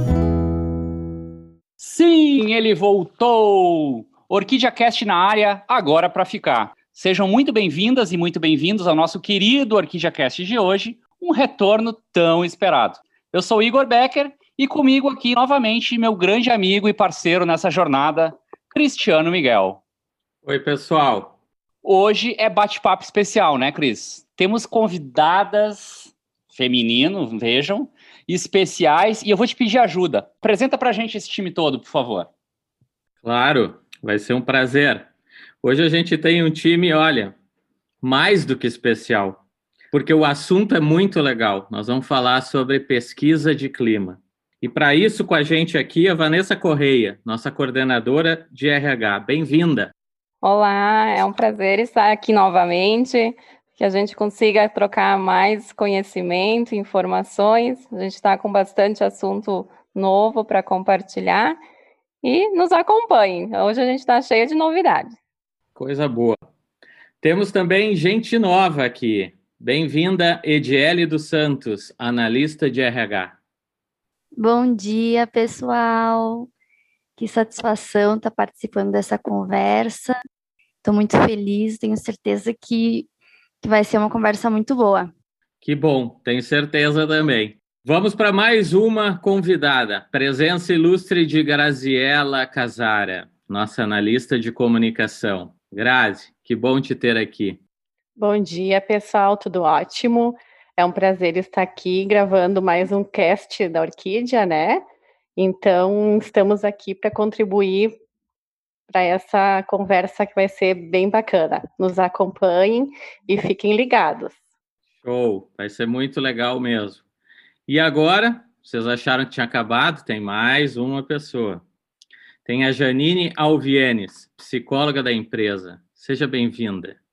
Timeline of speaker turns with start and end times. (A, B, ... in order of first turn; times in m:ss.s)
0:01.8-0:19.8 A
0:20.4-0:21.4 B
0:21.8-0:32.3 A
0:33.2-0:35.1 B
0:35.6-0:37.3 B
0:38.0-0:49.9 B
0:50.4-1:01.6 C
1:02.2-1:05.2 C
1:05.8-1:06.4 B
1:07.2-1:13.4 B
1:14.4-1:16.5 D
1:17.2-1:20.1 D
1:20.8-1:23.1 D
1:23.6-1:25.1 D
1:25.6-1:37.6 B
1:38.2-1:44.8 E
1:45.4-1:47.9 E
1:48.9-1:54.4 E
1:55.0-1:57.0 B
1:57.7-2:01.6 B
2:02.4-2:07.0 B